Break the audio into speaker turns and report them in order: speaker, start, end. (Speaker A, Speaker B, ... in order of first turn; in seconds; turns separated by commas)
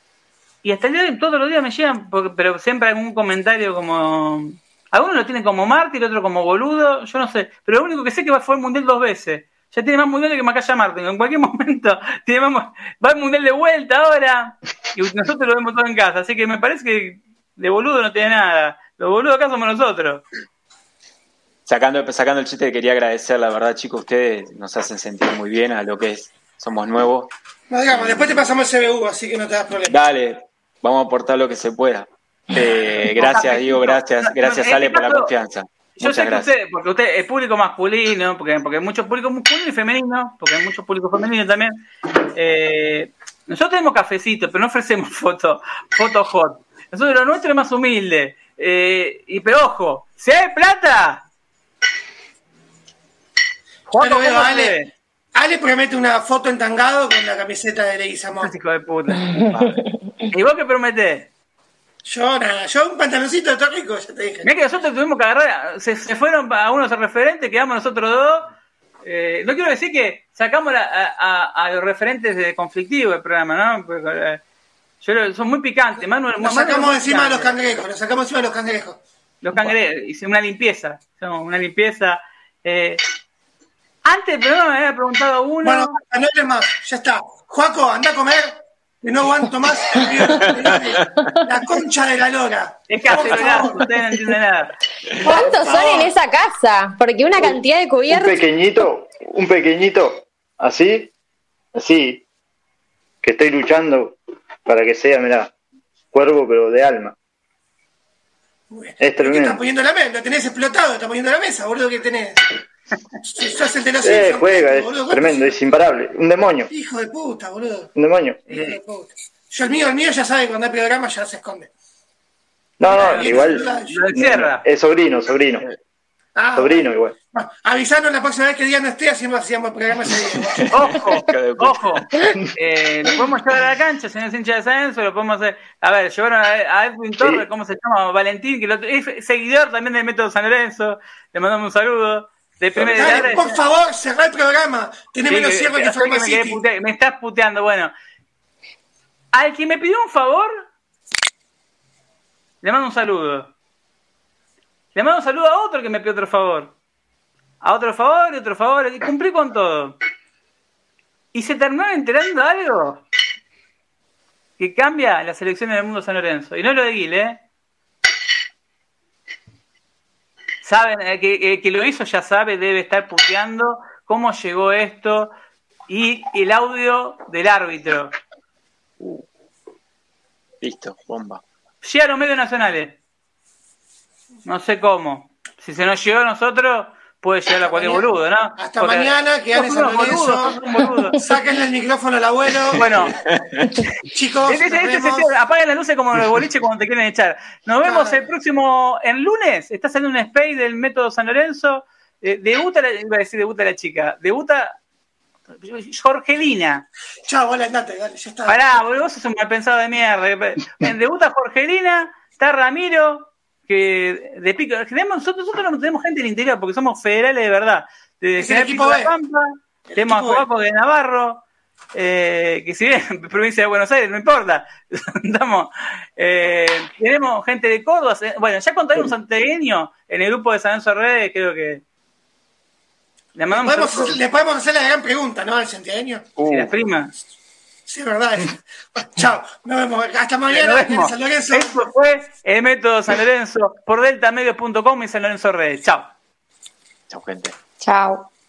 Speaker A: 0.6-20.2, Speaker B: 21.6-27.3, Speaker C: 27.7-29.9, Speaker B: 27.9-28.3, Speaker B: 29.9-36.5, Speaker A: 33.1-35.3, Speaker A: 36.0-41.7, Speaker A: 42.3-51.2, Speaker A: 53.9-54.9, Speaker C: 54.0-54.8, Speaker C: 55.3-58.5, Speaker A: 58.4-61.3, Speaker C: 62.0-64.5, Speaker A: 64.4-68.5, Speaker A: 69.0-74.4, Speaker A: 75.0-77.5, Speaker C: 76.4-79.0, Speaker A: 79.4-83.0, Speaker A: 84.0-85.9, Speaker C: 85.6-93.8, Speaker B: 90.5-91.0, Speaker A: 92.9-94.7, Speaker D: 95.2-98.4, Speaker C: 95.2-96.1, Speaker E: 98.1-101.1, Speaker E: 101.7-102.2, Speaker E: 103.2-105.5, Speaker E: 106.1-107.1, Speaker C: 108.7-112.5, Speaker E: 109.0-109.6, Speaker C: 113.2-115.5, Speaker E: 114.0-116.7, Speaker C: 116.7-117.9, Speaker E: 118.0-118.4, Speaker C: 118.5-121.7, Speaker A: 118.5-118.8, Speaker E: 122.8-125.6, Speaker C: 122.9-124.1, Speaker A: 122.9-124.6, Speaker C: 126.3-130.7, Speaker E: 126.5-127.1, Speaker B: 130.5-132.4, Speaker A: 130.7-143.6, Speaker C: 142.8-146.6, Speaker A: 145.3-147.9, Speaker A: 149.3-150.6, Speaker A: 152.6-153.5, Speaker A: 154.9-156.7, Speaker A: 157.6-160.0, Speaker A: 161.3-163.0, Speaker A: 164.6-167.4, Speaker A: 170.6-175.3, Speaker A: 175.9-178.1, Speaker B: 180.6-181.4, Speaker A: 181.8-183.0, Speaker A: 184.4-191.2, Speaker C: 187.6-190.6, Speaker C: 191.1-193.2, Speaker A: 192.7-193.2, Speaker B: 193.1-193.7, Speaker C: 194.0-195.3, Speaker A: 194.4-204.8, Speaker C: 197.8-198.3, Speaker A: 205.6-206.8, Speaker C: 207.2-208.6, Speaker A: 208.5-231.8, Speaker C: 218.4-219.1, Speaker C: 219.9-220.4, Speaker A: 233.3-234.2, Speaker C: 233.5-236.3, Speaker B: 236.4-236.7, Speaker A: 236.4-237.1, Speaker C: 237.8-241.7, Speaker A: 240.5-246.1, Speaker B: 247.1-247.5, Speaker D: 247.8-248.3